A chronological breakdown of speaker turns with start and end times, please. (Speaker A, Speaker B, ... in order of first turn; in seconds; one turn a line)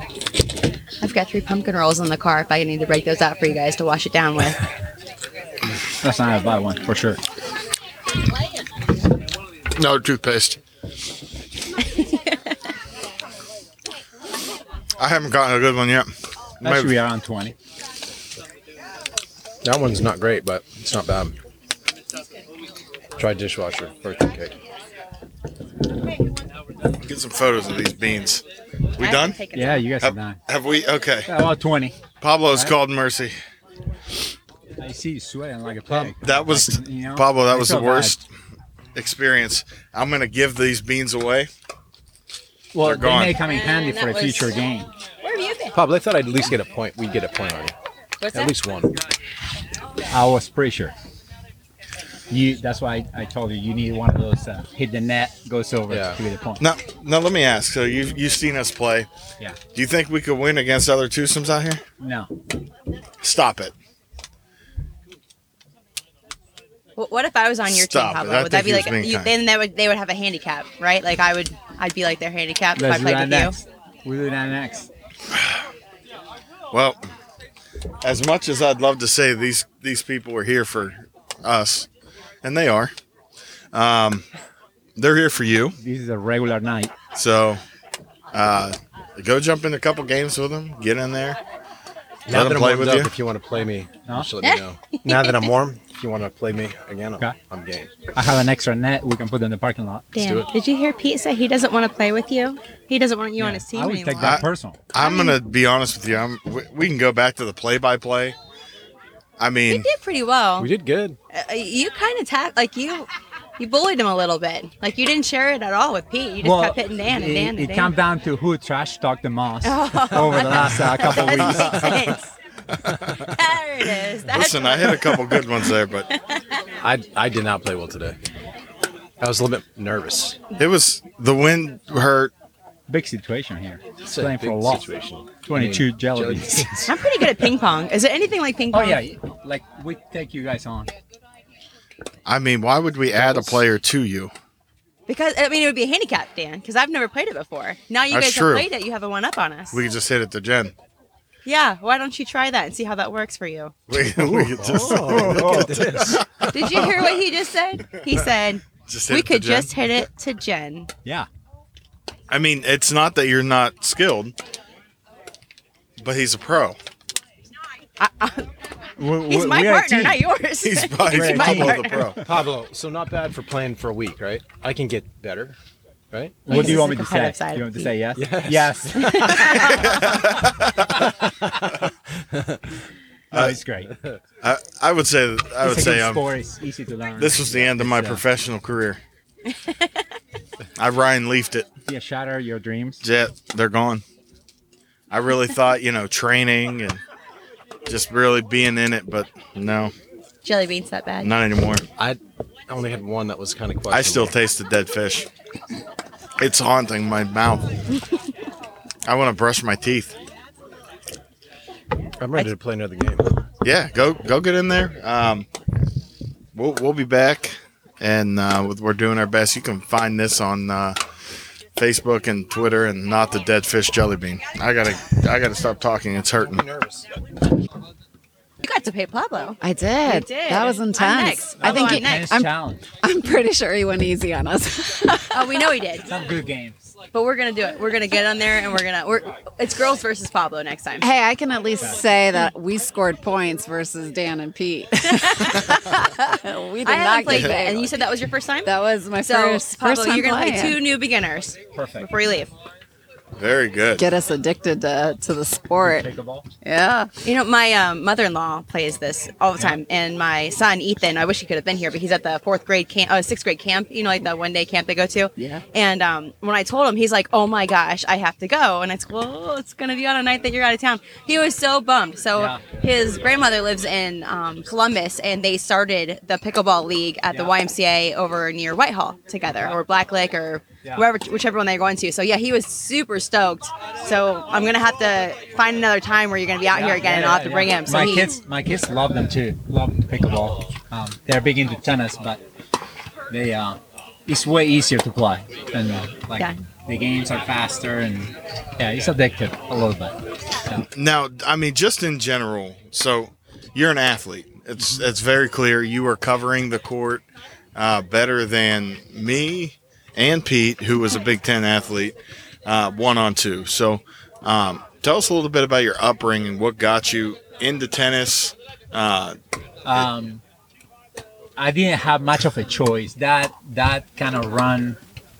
Speaker A: 1.0-4.6
Speaker B: 6.0-7.2
Speaker C: 9.8-10.6
Speaker C: 15.0-16.1
Speaker C: 16.6-16.9
Speaker B: 16.6-17.5
Speaker D: 19.6-21.4
Speaker D: 23.2-24.6
Speaker C: 26.9-28.4
Speaker C: 29.0-29.4
Speaker A: 29.0-29.9
Speaker B: 29.5-30.4
Speaker C: 30.0-31.3
Speaker B: 31.3-32.0
Speaker C: 32.2-33.4
Speaker B: 34.8-38.1
Speaker C: 36.1-38.2
Speaker C: 38.9-41.5
Speaker B: 42.7-44.9
Speaker C: 42.8-43.4
Speaker A: 43.4-44.5
Speaker A: 45.2-45.8
Speaker D: 45.7-47.7
Speaker A: 48.2-48.5
Speaker D: 48.3-48.9
Speaker B: 50.1-50.9
Speaker B: 52.3-56.6
Speaker D: 55.9-56.2
Speaker C: 56.6-59.1
Speaker C: 59.7-61.8
Speaker B: 62.0-62.3
Speaker C: 63.2-63.7
Speaker A: 67.0-73.5
Speaker C: 67.7-69.3
Speaker B: 72.8-74.9
Speaker C: 75.3-75.6
Speaker C: 76.7-77.1
Speaker C: 78.0-81.9
Speaker C: 82.4-82.9
Speaker C: 83.7-84.2
Speaker C: 85.0-85.8
Speaker B: 85.8-86.9
Speaker C: 87.1-87.6
Speaker C: 88.3-91.4
Speaker D: 92.3-97.9
Speaker C: 92.3-93.1
Speaker A: 94.4-95.5
Speaker B: 98.1-100.1
Speaker A: 100.1-104.4
Speaker D: 100.2-100.5
Speaker B: 103.4-104.8
Speaker C: 104.2-108.4
Speaker A: 105.0-105.4
Speaker C: 109.4-109.9
Speaker A: 109.7-110.7
Speaker D: 110.6-111.2
Speaker A: 111.3-117.9
Speaker B: 116.4-121.9
Speaker A: 119.6-122.3
Speaker C: 121.3-122.0
Speaker A: 123.2-125.4
Speaker C: 124.3-126.1
Speaker D: 126.8-128.2
Speaker D: 129.2-130.4
Speaker C: 130.6-132.3
Speaker B: 132.9-134.9
Speaker D: 134.1-137.5
Speaker B: 135.5-136.8
Speaker A: 136.9-139.0
Speaker B: 138.7-140.9
Speaker C: 142.2-144.3
Speaker D: 143.2-143.6
Speaker A: 145.1-149.8
Speaker C: 148.1-148.7
Speaker C: 149.7-150.7
Speaker A: 151.4-153.8
Speaker C: 153.9-157.0
Speaker D: 154.1-156.9
Speaker B: 155.0-156.2
Speaker A: 156.5-160.9
Speaker C: 158.9-159.7
Speaker C: 162.3-164.3
Speaker C: 166.0-166.8
Speaker A: 168.0-168.5
Speaker B: 169.0-170.2
Speaker A: 169.3-172.2
Speaker C: 170.6-172.2
Speaker B: 171.1-171.8
Speaker D: 172.2-175.6
Speaker D: 176.1-176.8
Speaker B: 176.5-179.4
Speaker A: 176.5-177.9
Speaker D: 178.2-180.2
Speaker A: 178.9-179.9
Speaker C: 179.6-180.8
Speaker D: 181.0-182.6
Speaker B: 183.3-183.9
Speaker C: 183.3-183.6
Speaker D: 183.9-184.2
Speaker C: 184.4-186.2
Speaker B: 185.6-188.2
Speaker C: 187.2-189.0
Speaker C: 190.8-191.7
Speaker B: 191.9-193.0
Speaker C: 193.0-194.0
Speaker C: 195.1-197.0
Speaker C: 197.9-199.9
Speaker A: 200.4-201.3
Speaker C: 201.2-201.8
Speaker D: 202.0-204.3
Speaker C: 203.9-205.3
Speaker C: 206.4-207.8
Speaker C: 209.1-210.2
Speaker D: 212.2-213.4
Speaker C: 213.6-215.5
Speaker C: 216.5-221.0
Speaker C: 221.8-226.6
Speaker D: 226.5-227.1
Speaker A: 228.6-232.4
Speaker E: 229.6-232.5
Speaker B: 231.6-232.9
Speaker E: 233.0-235.7
Speaker A: 235.3-236.1
Speaker B: 236.1-236.8
Speaker A: 237.1-241.1
Speaker E: 241.0-247.9
Speaker A: 245.4-245.7
Speaker A: 246.8-248.7
Speaker E: 248.6-250.8
Speaker A: 249.2-252.5
Speaker B: 251.7-252.1
Speaker C: 253.3-254.1
Speaker E: 254.0-256.1
Speaker B: 255.8-256.5
Speaker E: 256.6-257.1
Speaker A: 257.2-288.4
Speaker B: 272.4-272.7
Speaker B: 286.7-292.4
Speaker B: 293.3-300.9
Speaker C: 300.9-319.4
Speaker B: 319.8-320.4
Speaker B: 321.6-325.0